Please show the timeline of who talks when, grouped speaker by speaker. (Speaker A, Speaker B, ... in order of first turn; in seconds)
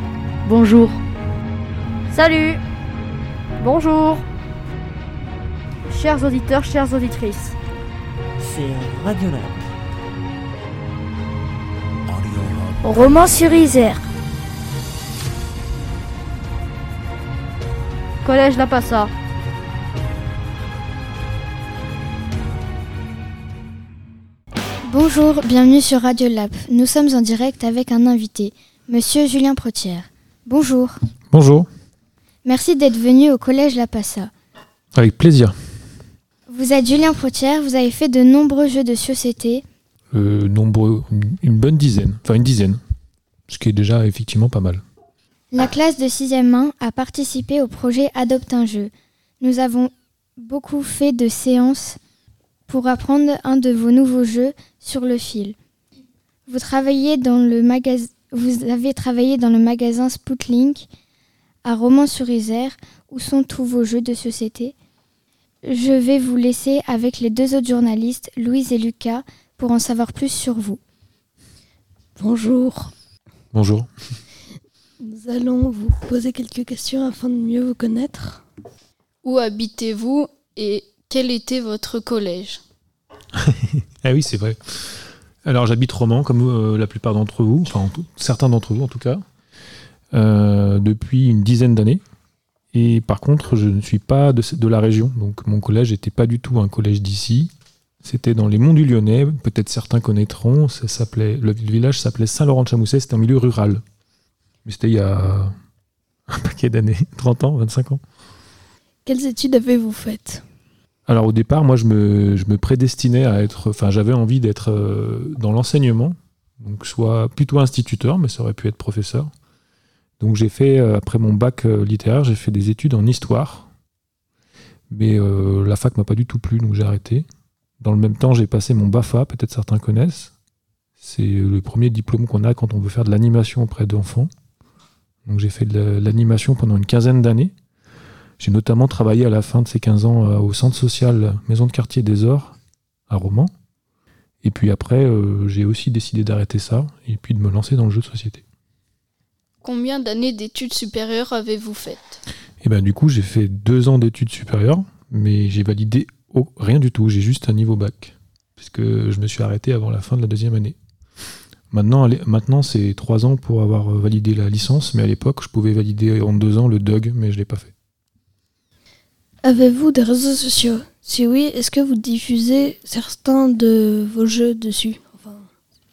Speaker A: 0.5-1.0, 2.1-2.6, 3.6-4.2, 5.9-7.5, 12.9-13.6, 18.2-19.1
Speaker B: 8.4-9.6, 12.1-12.8
Speaker C: 24.9-30.9, 32.4-34.3, 36.5-39.6, 45.5-52.0, 52.7-55.5, 56.5-60.9, 61.6-64.7, 65.7-70.8
Speaker D: 31.3-31.7, 34.9-35.5, 40.1-42.8, 43.5-44.8, 73.5-73.9, 83.3-89.2, 90.1-92.0, 92.7-97.5, 98.0-103.8, 104.6-105.5, 106.3-108.0, 111.1-119.3, 120.2-123.7, 124.9-127.2, 127.8-130.3, 131.0-134.3, 135.2-137.5, 138.4-142.6, 143.1-143.5, 144.4-148.4, 152.6-160.8, 161.7-167.7
Speaker E: 72.2-72.9, 75.0-78.4, 109.0-110.4, 169.4-175.5
Speaker F: 79.2-82.6, 149.6-152.2